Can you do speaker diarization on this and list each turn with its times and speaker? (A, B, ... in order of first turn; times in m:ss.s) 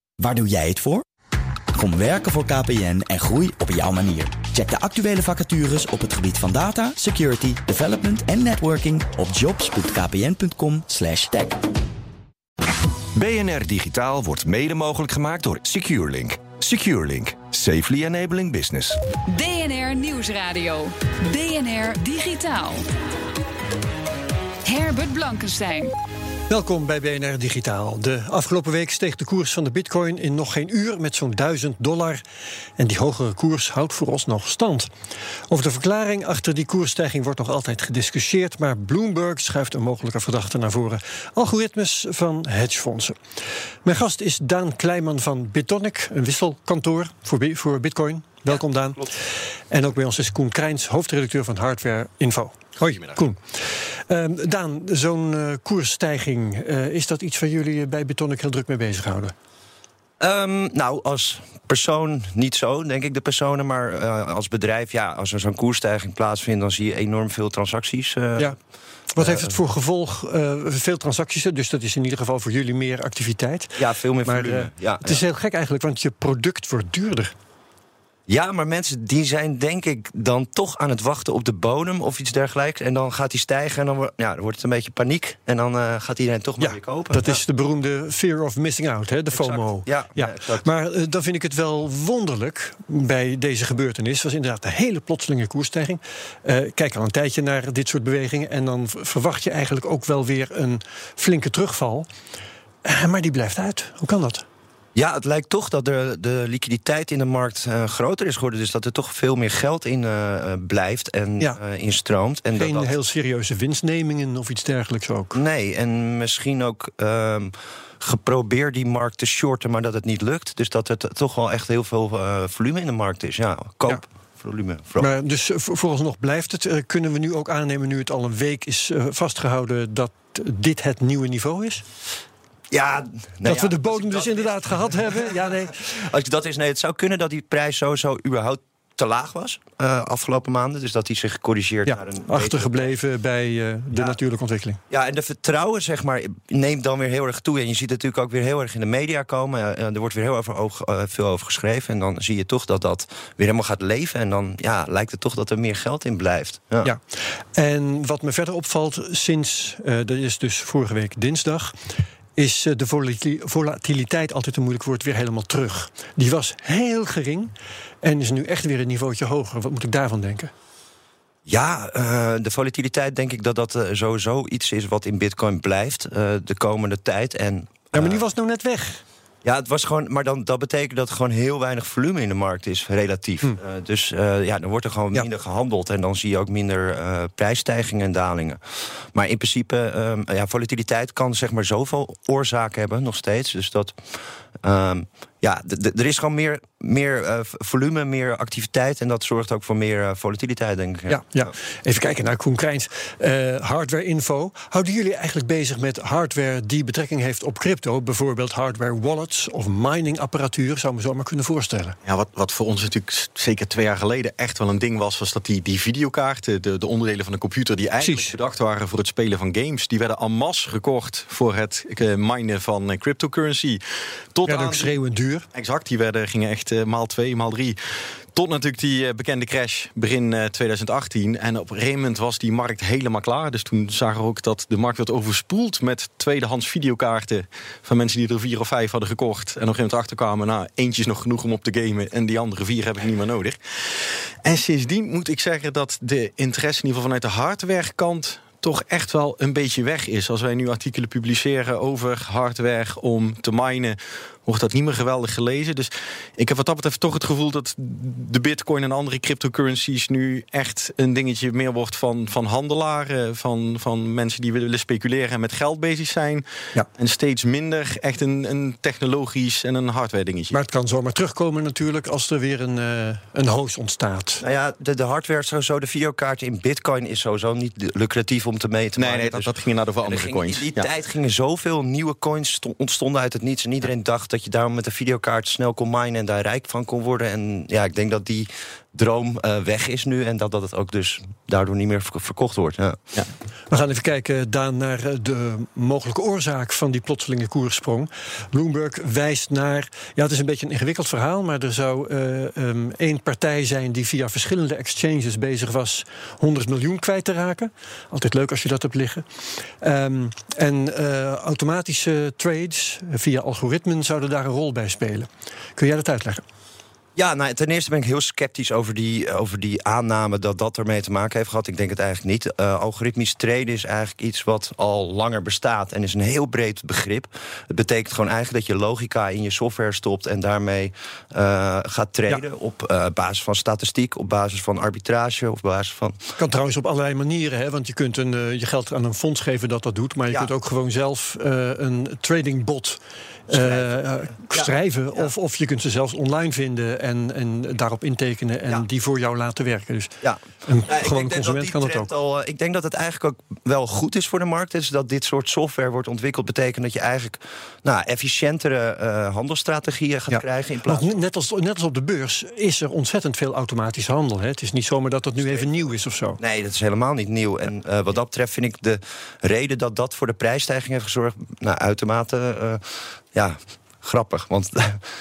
0:00.2-0:01.0 A
0:01.8-0:11.6 A
0:13.4-0:16.2 B
0:16.7-0:18.7 B
0:19.3-0:22.8 C
0:24.6-0:25.9 C
0:26.5-0:32.2 D
0:32.8-0:34.9 D
0:35.5-0:43.2 D
0:43.8-0:49.1 D
0:49.7-0:53.4 D
0:52.8-0:53.2 E
0:54.1-0:59.3 D
1:00.2-1:08.6 F
1:09.1-1:17.3 D
1:09.2-1:09.5 F
1:13.8-1:15.2 F
1:18.3-1:27.4 F
1:26.6-1:42.1 D
1:29.3-1:30.7 F
1:42.8-1:44.4 D
1:45.0-1:52.9 F
1:52.5-1:55.4 D
1:55.3-2:05.1 F
2:05.0-2:11.8 D
2:12.7-2:22.9 F
2:13.4-2:15.8 D
2:21.9-2:24.8 D
2:24.9-2:36.9 F
2:37.6-2:41.8 D
2:42.4-2:50.5 D
2:51.5-2:58.2 F
2:57.9-2:59.0 D
2:59.4-3:08.6 F
3:09.1-3:14.0 F
3:14.6-3:21.5 F
3:21.1-3:32.0 D
3:32.0-3:43.8 E
3:38.0-3:38.3 D
3:44.3-3:44.9 E
3:44.4-3:45.5 D
3:45.5-3:47.8 E
3:48.3-4:03.6 E
4:04.4-4:26.5 E
4:27.0-4:30.6 E
4:30.5-4:34.4 D
4:34.4-4:39.5 F
4:39.0-4:40.9 E
4:40.0-4:53.0 F
4:53.7-5:09.2 D
5:09.8-5:16.4 D
5:17.2-5:36.2 F
5:36.4-5:52.1 D
5:43.5-5:45.3 F
5:50.2-6:01.1 F
6:00.3-6:06.4 D
6:05.4-6:05.8 F
6:06.4-6:12.8 F
6:13.3-6:15.0 F